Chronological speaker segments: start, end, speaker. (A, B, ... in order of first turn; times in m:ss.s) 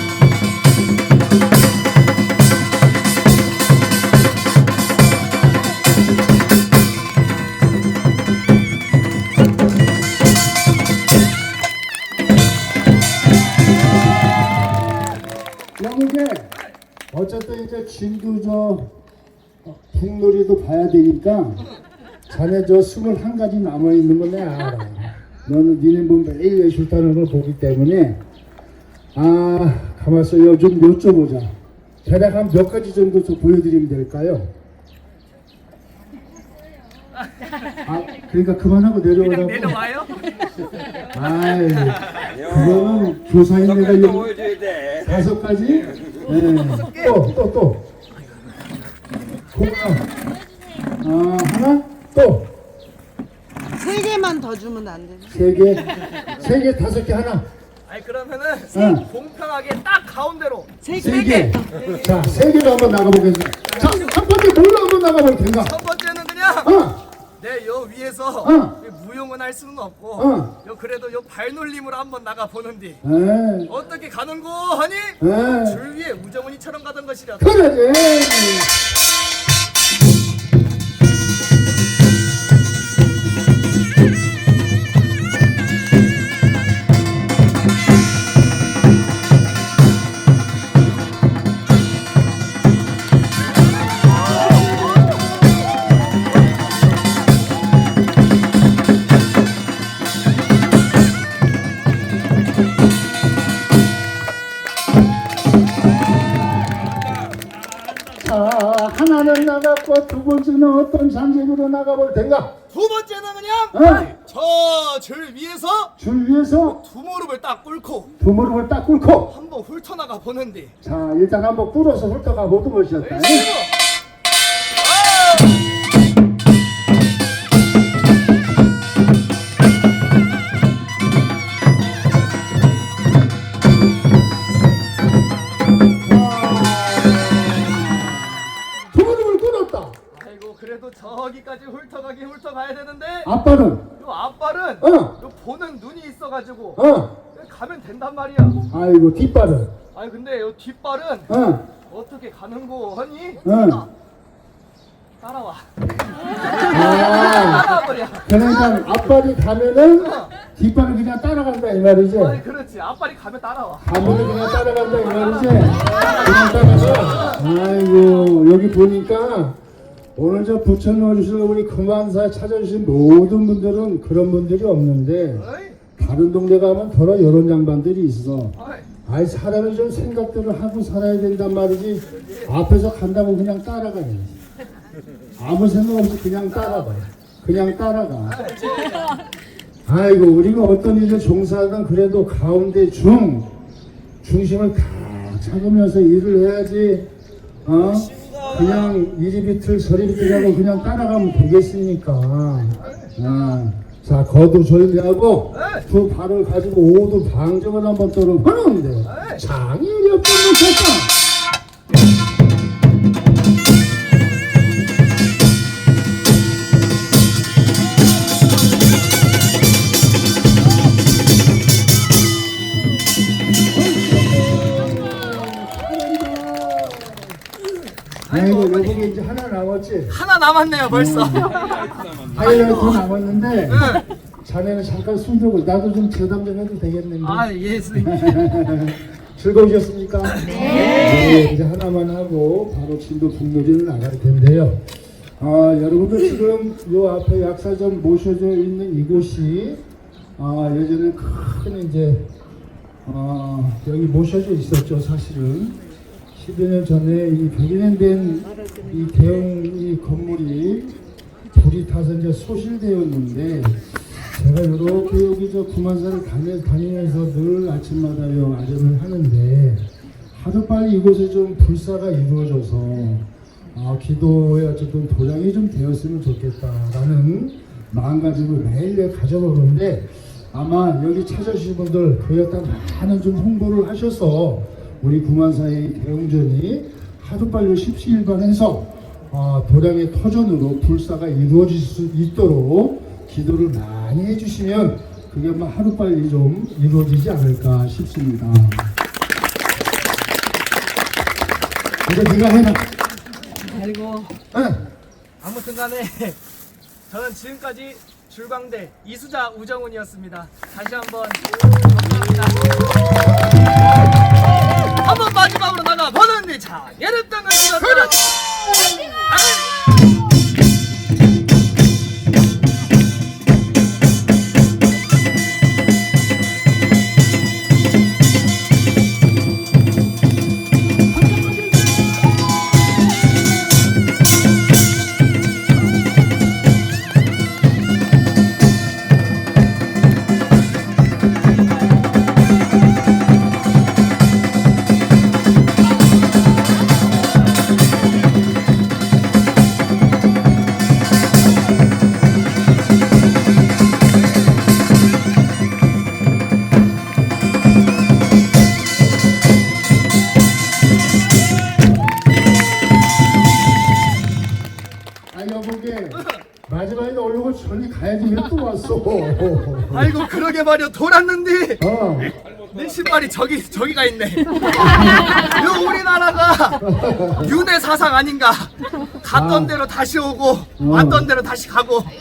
0:15.8-0:16.5 A
0:17.1-0:18.9 A
0:19.6-0:21.7 A
0:22.3-0:28.2 A
0:29.1-0:34.5 A
0:37.8-0:39.8 A
0:39.2-0:40.4 B
0:41.1-0:47.9 A
0:46.5-0:47.2 B
0:49.5-0:50.1 A
0:51.0-0:52.5 A
0:53.7-0:55.4 C
0:55.3-0:57.5 A
0:57.9-1:00.7 B
0:58.7-0:59.0 A
1:00.8-1:01.7 C
1:00.9-1:05.8 A
1:01.8-1:02.1 B
1:05.6-1:06.7 B
1:06.6-1:07.0 A
1:07.4-1:13.0 B
1:08.4-1:08.8 A
1:10.2-1:10.5 A
1:13.0-1:13.7 A
1:13.7-1:17.6 B
1:15.2-1:15.8 A
1:17.4-1:18.7 A
1:48.2-1:52.5 A
1:52.7-1:55.9 B
1:53.7-1:54.2 A
1:56.0-1:56.8 A
1:56.6-1:58.1 B
1:58.2-1:59.3 A
1:59.3-2:00.7 B
2:00.8-2:03.5 A
2:03.0-2:03.7 B
2:04.8-2:05.6 B
2:16.0-2:18.4 A
2:18.9-2:20.0 A
2:20.1-2:23.3 B
2:23.2-2:23.8 A
2:24.0-2:26.8 B
2:24.8-2:25.1 A
2:26.8-2:27.1 A
2:27.3-2:28.6 B
2:28.7-2:29.7 A
2:29.9-2:31.3 B
2:31.3-2:31.6 A
2:31.9-2:33.9 B
2:33.4-2:33.8 A
2:35.2-2:35.7 B
2:36.5-2:38.3 B
2:36.6-2:42.4 A
2:40.0-2:40.3 B
2:42.2-2:44.1 B
2:43.8-2:49.6 A
2:45.5-2:47.4 B
2:50.2-3:04.4 A
2:55.4-2:55.8 B
2:58.6-2:58.9 B
3:05.4-3:08.5 A
3:08.3-3:09.0 B
3:09.8-3:13.5 A
3:14.2-3:17.1 A
3:17.6-3:31.1 A
3:22.8-3:23.1 B
3:25.5-3:25.8 B
3:29.1-3:29.4 B
3:43.7-3:47.4 A
3:48.2-3:49.1 B
3:48.3-3:50.2 A
3:50.1-3:53.0 B
3:50.9-4:04.8 A
3:53.7-3:54.0 B
3:57.2-3:58.5 B
4:00.5-4:01.2 C
4:05.4-4:09.8 A
4:10.4-4:12.3 A
4:13.0-4:15.8 A
4:16.3-4:21.0 A
4:21.5-4:58.9 A
5:02.0-5:02.9 A
5:03.6-5:04.3 B
5:04.5-5:04.8 A
5:05.4-5:06.4 B
5:07.1-5:12.8 B
5:15.0-5:18.2 B
5:17.8-5:19.0 A
5:19.2-5:19.7 B
5:31.2-5:31.8 A
6:05.3-6:10.2 A
6:09.9-6:11.8 B
6:11.8-6:12.3 A
6:12.6-6:16.8 B
6:14.8-6:15.2 A
6:16.8-6:17.5 A
6:17.4-6:22.1 B
6:19.3-6:19.8 A
6:20.8-6:21.3 A